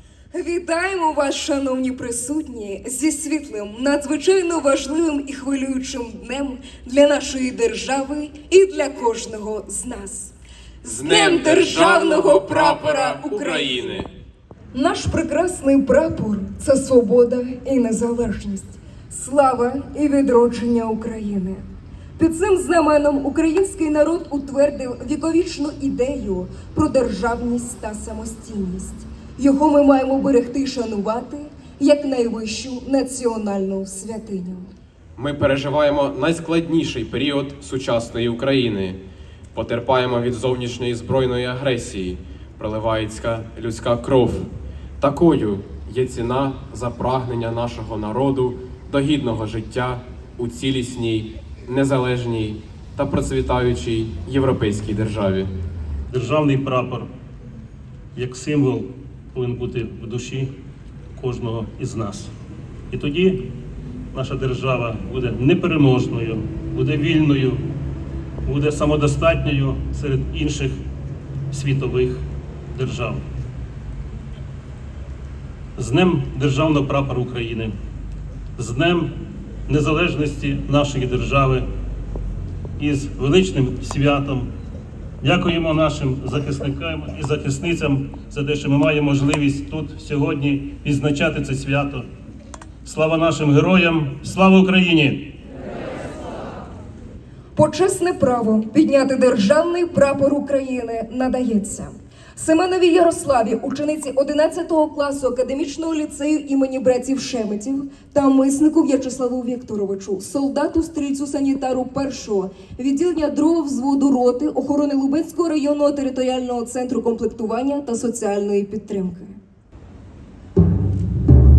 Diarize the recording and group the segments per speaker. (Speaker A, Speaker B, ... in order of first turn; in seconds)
Speaker A: 0.3-14.1, 14.7-21.6, 22.2-34.7, 97.5-119.4
Speaker B: 10.8-14.1, 35.2-39.0, 39.5-55.5
Speaker C: 56.1-57.1, 58.1-60.5, 61.2-62.3, 62.9-63.5, 64.1-67.6, 68.5-70.8, 71.5-73.2, 75.8-77.7, 78.6-79.1, 79.7-81.7, 82.8-84.5, 85.2-92.0, 92.8-95.2